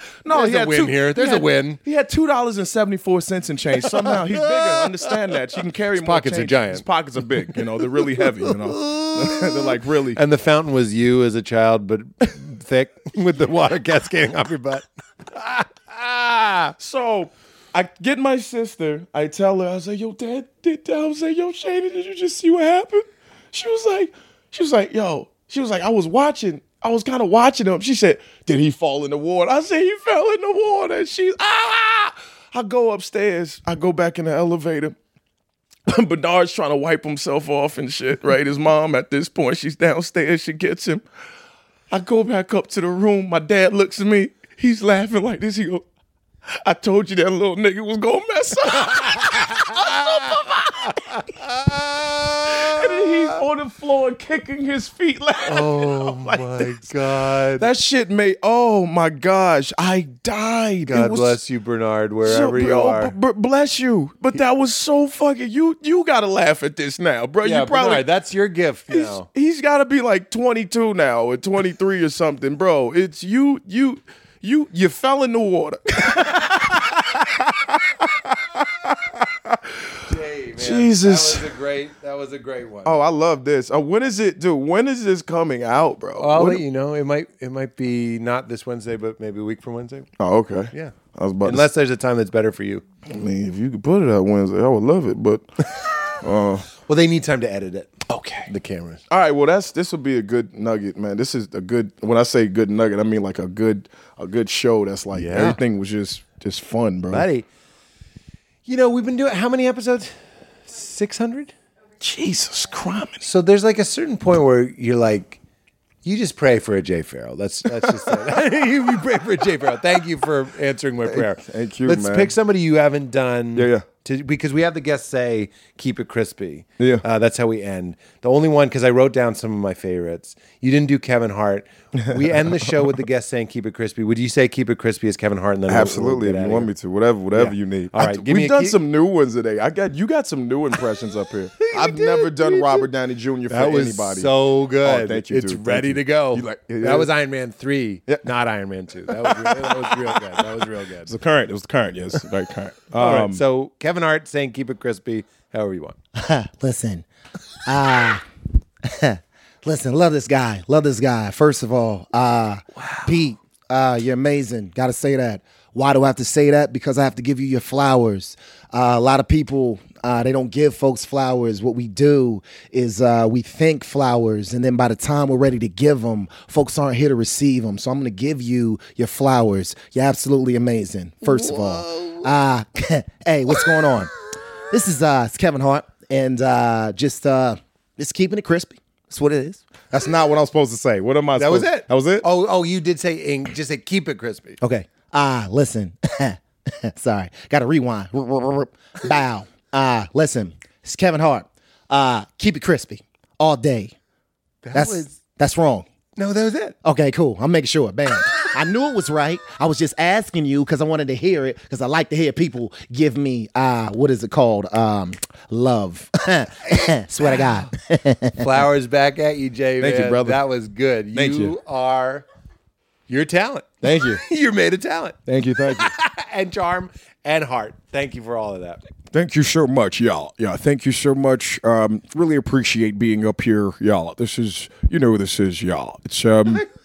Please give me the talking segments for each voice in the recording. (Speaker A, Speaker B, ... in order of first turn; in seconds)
Speaker A: 0.2-10.2, 16.8-35.0, 35.9-41.0, 41.9-45.8, 46.6-51.1, 52.5-56.9, 57.6-61.4, 62.2-68.1, 68.9-79.6, 80.6-81.5, 82.8-86.6, 90.2-91.7, 93.1-95.5, 96.2-96.7, 98.1-98.5, 99.1-107.3, 112.0-113.2, 121.1-122.3, 123.6-123.8, 126.8-127.0, 132.0-132.9, 135.7-147.1, 149.1-150.2, 151.1-153.4, 189.9-192.3, 219.8-220.4, 221.1-221.6, 223.8-224.2, 225.3-225.9, 229.1-236.7
Speaker B: 0.3-1.8, 3.8-5.2, 5.9-6.8, 7.5-16.7, 48.9-53.4, 55.5-57.7, 60.9-63.1, 67.4-69.3, 80.0-82.9, 86.2-90.1, 90.7-92.8, 96.7-99.0, 105.1-105.6, 107.1-107.5, 108.7-110.1, 110.7-111.5, 113.2-115.4, 116.0-136.7, 137.3-138.8, 141.6-142.9, 143.5-151.1, 152.9-156.0, 181.3-182.3, 191.4-194.6, 204.6-205.2, 206.2-206.8, 217.2-217.7, 218.4-222.3, 223.1-228.8, 236.5-236.7
Speaker C: 156.2-157.1, 157.7-158.2, 158.8-184.1, 184.7-189.7, 194.6-203.9, 204.7-205.9, 206.8-218.6